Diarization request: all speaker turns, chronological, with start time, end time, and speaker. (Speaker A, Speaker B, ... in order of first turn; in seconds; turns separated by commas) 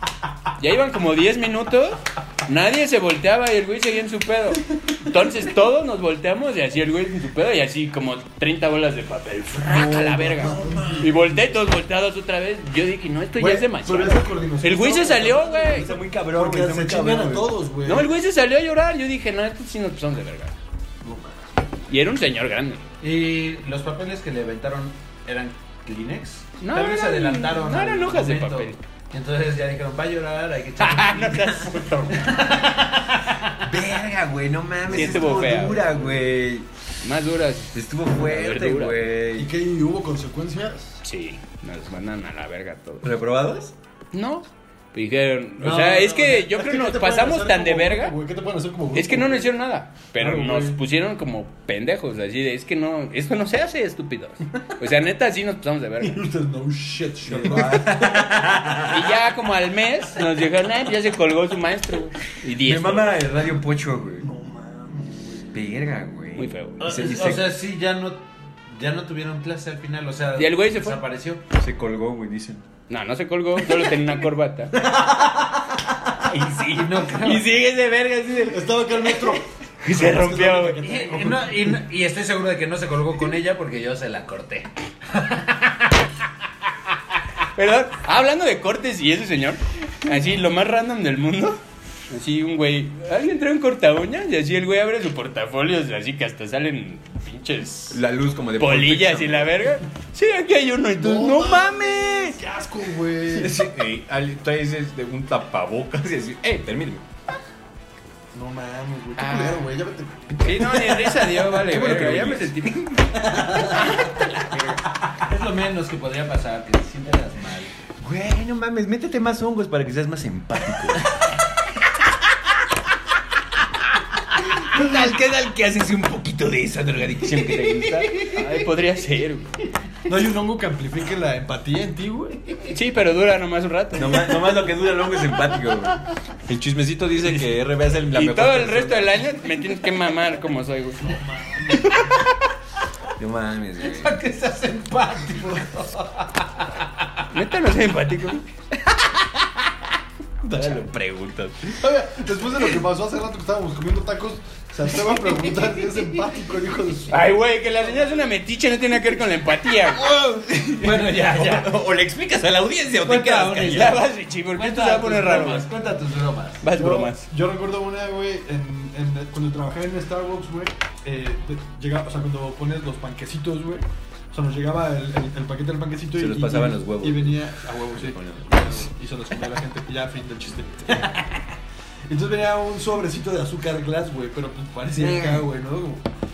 Speaker A: 0.6-16.0, Speaker B: 9.6-11.3, Speaker C: 10.4-11.2, Speaker B: 13.4-15.7, Speaker C: 15.5-17.6, Speaker B: 16.3-18.1, Speaker A: 17.8-20.6, Speaker B: 21.0-21.3, Speaker A: 21.9-22.8, Speaker D: 23.0-31.6, Speaker A: 26.6-28.8, Speaker A: 30.8-32.5, Speaker D: 32.1-33.6, Speaker C: 33.6-36.7, Speaker A: 34.9-35.9, Speaker B: 35.0-36.0, Speaker A: 37.0-39.0, Speaker C: 37.7-39.5, Speaker B: 39.4-41.0, Speaker A: 41.0-43.1, Speaker C: 43.0-43.7, Speaker A: 44.1-48.1, Speaker B: 45.6-49.5, Speaker A: 48.9-56.2, Speaker B: 50.2-50.8, Speaker B: 56.0-58.5, Speaker C: 57.2-59.1, Speaker A: 58.8-63.2, Speaker C: 62.6-64.3, Speaker B: 64.2-65.5, Speaker C: 65.5-67.5, Speaker A: 66.4-66.8, Speaker D: 66.8-71.4, Speaker A: 70.4-71.0, Speaker C: 71.5-72.6, Speaker A: 72.9-74.7, Speaker B: 74.8-75.6, Speaker C: 76.3-78.6, Speaker D: 76.7-77.5, Speaker B: 78.4-81.8, Speaker A: 79.8-80.9, Speaker D: 80.8-85.9, Speaker A: 87.6-91.6, Speaker A: 92.1-98.0, Speaker C: 97.9-99.7, Speaker A: 98.6-102.4, Speaker B: 101.0-103.7, Speaker C: 103.3-107.0, Speaker B: 108.3-112.3, Speaker A: 109.2-109.7, Speaker A: 110.4-114.8, Speaker C: 111.7-112.5, Speaker B: 113.2-113.9, Speaker D: 113.8-114.1, Speaker D: 115.1-117.7, Speaker C: 118.0-121.1, Speaker C: 124.4-128.1, Speaker D: 127.3-128.5, Speaker A: 128.2-129.6, Speaker B: 130.1-132.6, Speaker A: 132.7-134.5, Speaker C: 133.9-139.3, Speaker A: 138.1-141.2, Speaker B: 141.0-142.1, Speaker C: 143.2-144.1, Speaker D: 143.8-147.1, Speaker A: 147.3-148.5, Speaker C: 150.4-151.8, Speaker B: 151.8-157.3, Speaker A: 157.1-160.1, Speaker C: 160.0-164.0, Speaker D: 160.8-161.7, Speaker D: 163.0-166.6, Speaker A: 163.6-165.7, Speaker A: 166.6-167.2, Speaker B: 166.7-181.4, Speaker C: 176.2-178.7, Speaker B: 182.1-186.1, Speaker C: 185.0-185.4